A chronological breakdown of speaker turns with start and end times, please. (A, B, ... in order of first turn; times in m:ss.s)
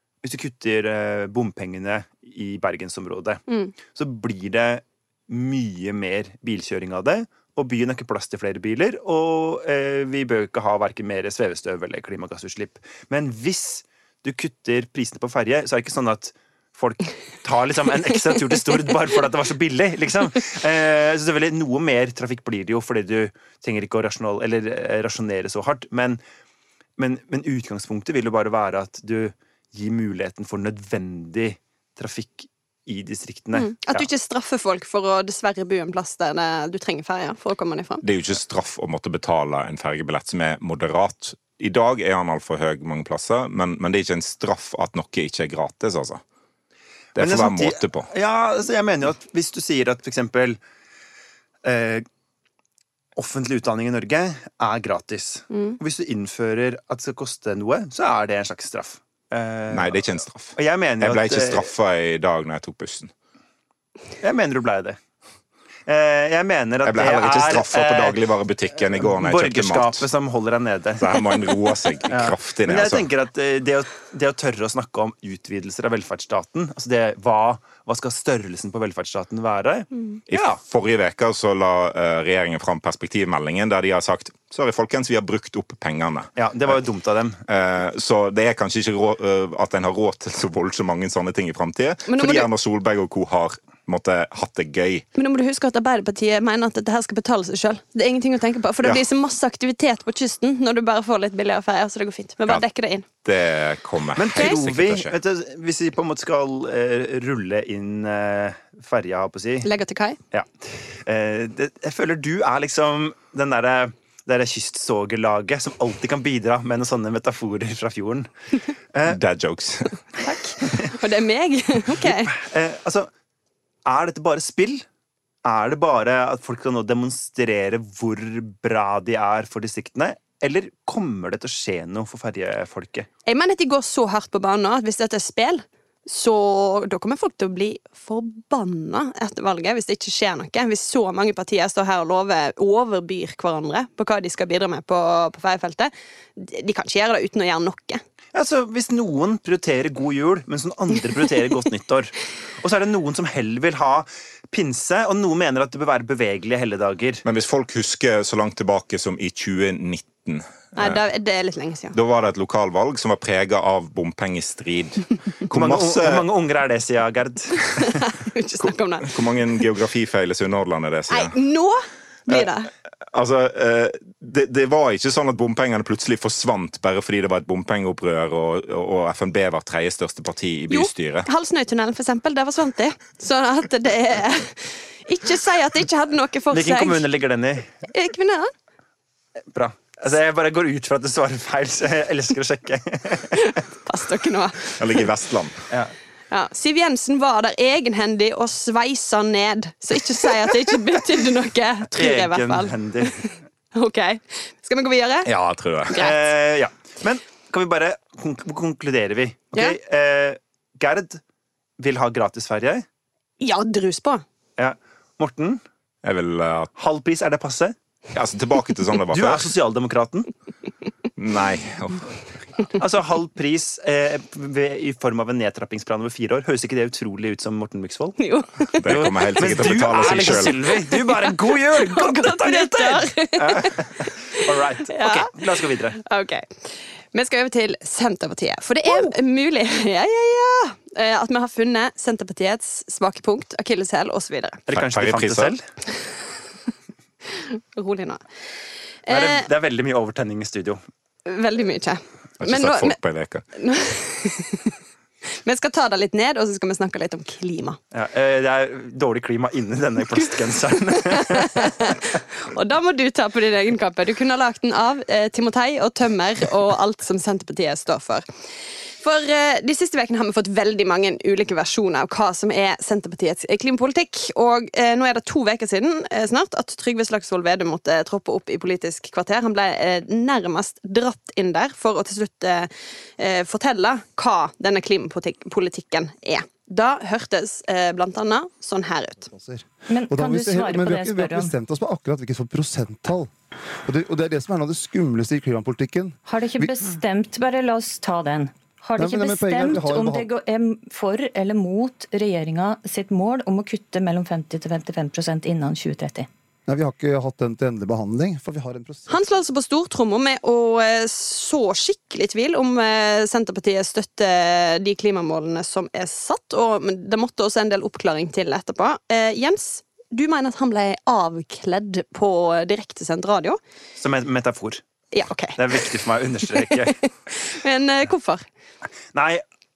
0:00.2-0:26.2 A
0:03.5-0:03.7 B
0:27.0-0:34.1 A
0:33.5-0:38.0 B
0:38.0-0:46.2 C
0:47.1-0:48.1 C
0:47.2-0:50.6 A
0:51.6-0:52.0 A
0:53.2-1:00.0 A
0:55.5-0:55.8 B
0:59.7-1:03.1 C
1:00.6-1:01.7 A
1:04.2-1:05.0 A
1:05.9-1:08.2 A
1:06.8-1:10.0 C
1:09.0-1:11.2 A
1:11.0-1:13.0 C
1:12.1-1:20.6 A
1:20.3-1:26.8 C
1:26.4-1:27.4 A
1:27.5-1:35.0 C
1:32.1-1:32.5 B
1:35.1-1:43.0 B
1:43.2-1:45.2 C
1:44.2-1:49.7 A
1:44.3-1:44.6 B
1:49.6-1:50.2 B
1:50.3-1:58.3 A
1:58.9-1:59.2 A
1:59.1-2:00.0 C
2:00.2-2:02.3 B
2:02.0-2:03.1 A
2:03.8-2:04.8 A
2:05.4-2:13.1 A
2:13.2-2:28.0 B
2:28.3-2:37.2 A
2:37.2-2:41.0 C
2:40.8-2:42.0 B
2:41.9-2:46.2 C
2:45.5-2:47.7 A
2:47.8-2:49.2 B
2:48.6-2:51.3 C
2:51.1-2:52.7 B
2:53.1-3:01.3 C
3:00.7-3:07.0 B
3:06.5-3:07.8 A
3:07.9-3:08.5 B
3:09.5-3:13.4 A
3:13.3-3:15.0 B
3:14.8-3:15.6 C
3:15.7-3:15.9 A
3:16.3-3:25.3 B
3:22.0-3:23.3 A
3:25.2-3:26.0 C
3:25.9-3:26.2 B
3:25.9-3:31.2 A
3:31.8-3:32.8 A
3:33.4-3:34.2 B
3:34.6-3:35.6 A
3:36.0-3:36.7 C
3:36.8-3:37.7 A
3:38.1-3:39.5 C
3:39.1-3:40.3 A
3:41.2-3:42.2 C
3:42.7-3:48.2 A
3:48.2-3:49.1 B
3:48.8-3:50.8 C
3:48.9-3:56.0 A
3:50.7-4:04.6 B
4:04.7-4:05.6 A
4:04.7-4:05.5 C
4:07.2-4:08.2 B
4:09.0-4:09.4 B
4:09.1-4:10.8 A
4:11.2-4:13.0 B
4:12.4-4:13.4 C
4:13.5-4:14.8 B
4:15.3-4:17.8 B
4:17.9-4:22.0 A
4:21.0-4:28.2 B
4:29.0-4:49.3 B
4:49.3-4:53.3 D
4:49.9-4:51.5 E
4:53.8-4:56.9 D
4:56.2-5:06.3 E
4:59.0-5:00.3 D
5:06.7-5:09.2 D
5:09.1-5:23.6 B
5:24.0-5:24.8 A
5:25.1-5:28.4 B
5:25.6-5:27.0 A
5:29.1-5:29.4 A